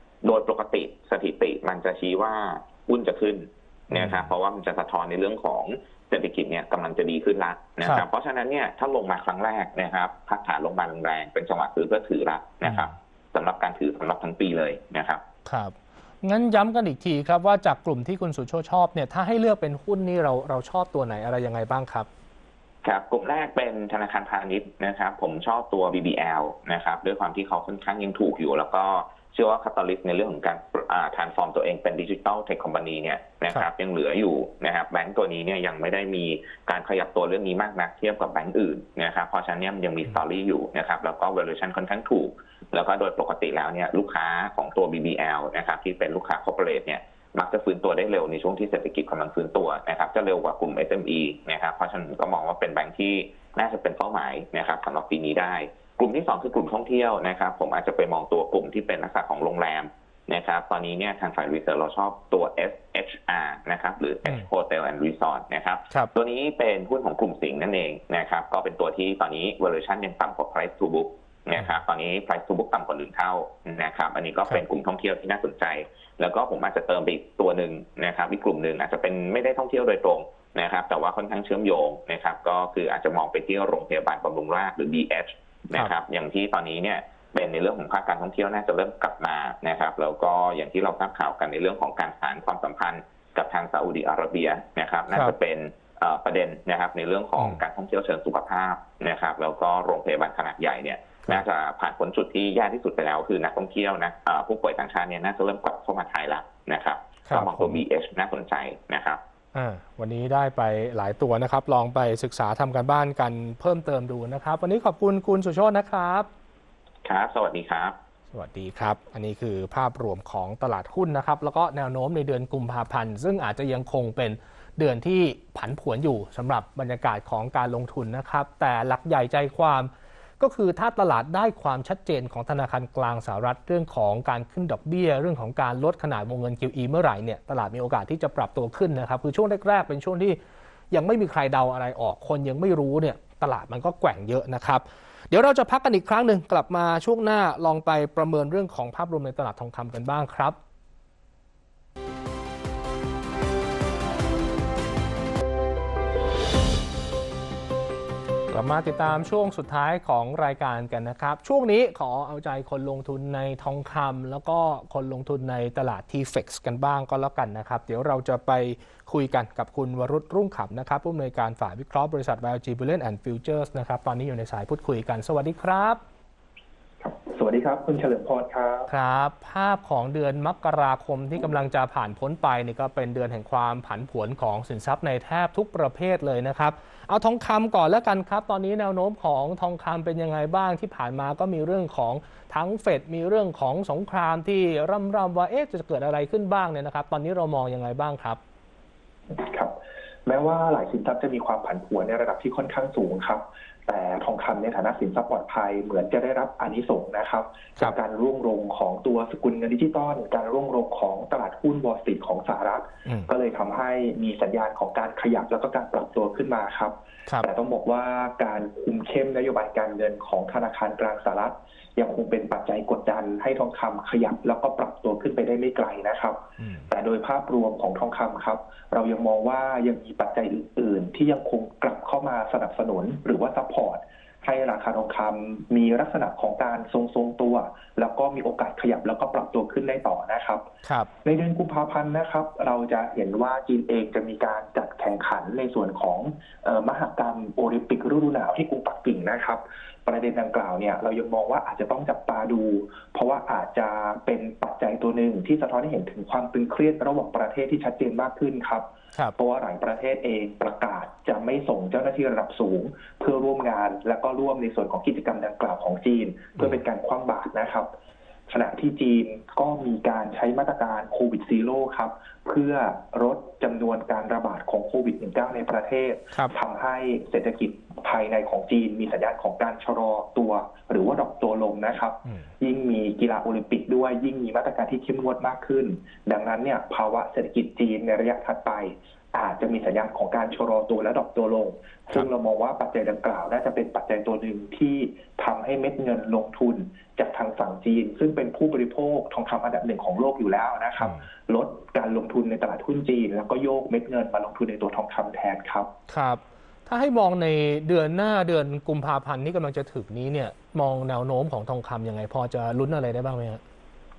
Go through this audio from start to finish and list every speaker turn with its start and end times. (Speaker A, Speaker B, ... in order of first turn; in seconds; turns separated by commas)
Speaker A: 0.2-15.2, Speaker B: 3.9-4.3, Speaker B: 12.6-12.9, Speaker B: 15.4-22.1, Speaker A: 22.8-109.2, Speaker B: 107.3-107.8, Speaker B: 109.5-116.3, Speaker A: 117.0-118.0, Speaker B: 118.3-140.4, Speaker B: 140.9-150.6, Speaker B: 158.5-176.0, Speaker C: 177.0-178.9, Speaker B: 178.9-198.4, Speaker C: 199.3-240.7, Speaker B: 213.1-213.3, Speaker B: 226.6-226.9, Speaker B: 240.8-241.1, Speaker C: 241.2-267.9, Speaker C: 268.5-305.9, Speaker B: 306.1-313.6